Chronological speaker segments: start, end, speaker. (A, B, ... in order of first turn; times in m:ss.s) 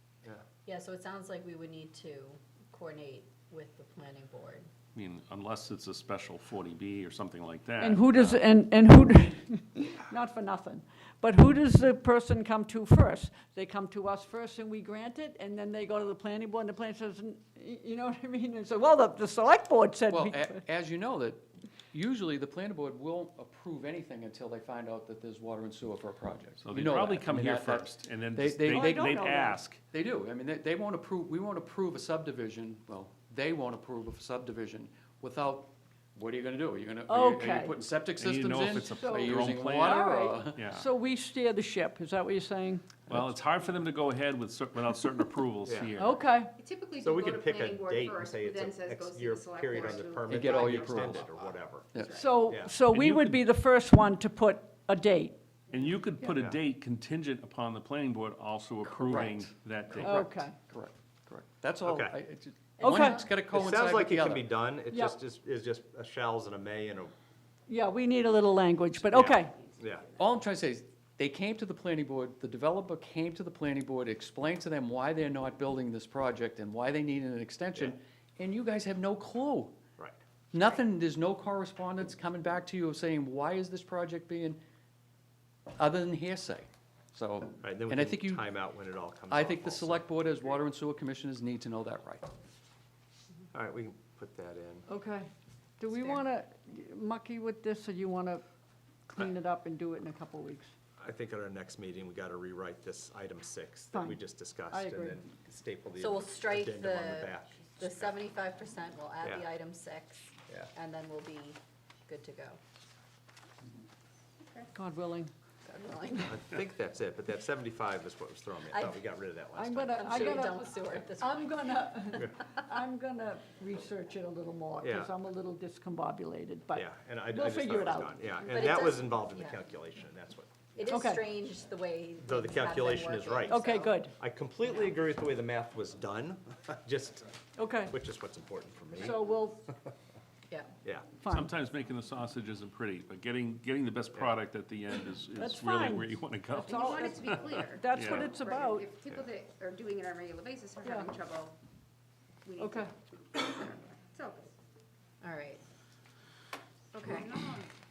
0:00.6-0:04.7 A
0:04.9-0:08.4 B
0:07.8-0:20.6 C
0:20.1-0:40.7 D
0:26.6-0:29.8 B
0:28.8-0:29.6 C
0:37.1-0:37.8 C
0:38.2-0:40.8 B
0:38.5-0:43.0 C
0:43.1-0:46.2 B
0:45.6-0:46.0 E
0:46.0-0:46.5 C
0:46.6-0:51.3 F
0:47.0-0:52.7 E
0:50.3-0:51.3 D
0:51.9-0:52.2 D
0:51.9-0:52.4 F
0:52.2-0:55.4 C
0:52.9-0:53.5 B
0:55.7-1:00.2 B
0:58.9-0:59.2 C
0:59.1-1:04.5 D
1:00.0-1:00.6 C
1:01.8-1:02.2 E
1:02.8-1:03.3 A
1:02.8-1:03.3 C
1:03.3-1:07.1 E
1:04.9-1:05.2 C
1:07.7-1:09.5 C
1:09.1-1:10.1 E
1:10.2-1:19.8 D
1:20.5-1:24.6 D
1:25.7-1:28.4 D
1:27.6-1:30.3 E
1:29.3-1:32.3 D
1:33.5-1:34.8 E
1:34.9-1:35.3 C
1:35.8-1:38.4 C
1:35.9-1:36.2 A
1:39.1-1:40.7 C
1:41.0-1:48.1 E
1:43.9-1:45.2 C
1:45.9-1:52.6 A
1:49.2-1:49.5 E
1:54.4-1:54.7 F
1:54.7-1:55.3 C
1:55.7-1:56.3 A
1:56.2-2:00.4 E
1:58.7-1:59.0 A
1:59.5-2:08.2 C
1:59.9-2:02.4 A
2:04.8-2:05.1 E
2:06.7-2:10.7 E
2:08.4-2:09.6 A
2:10.7-2:14.0 A
2:10.9-2:11.3 C
2:12.2-2:17.3 E
2:13.5-2:14.1 C
2:17.6-2:17.9 C
2:17.8-2:19.3 E
2:18.9-2:19.6 C
2:21.2-2:21.5 C
2:21.3-2:26.8 B
2:25.4-2:28.9 C
2:26.6-2:31.6 F
2:27.6-2:28.3 B
2:30.8-2:31.1 C
2:32.4-2:34.5 F
2:32.6-2:32.9 C
2:35.2-2:35.6 A
2:36.9-2:37.7 F
2:37.0-2:37.4 A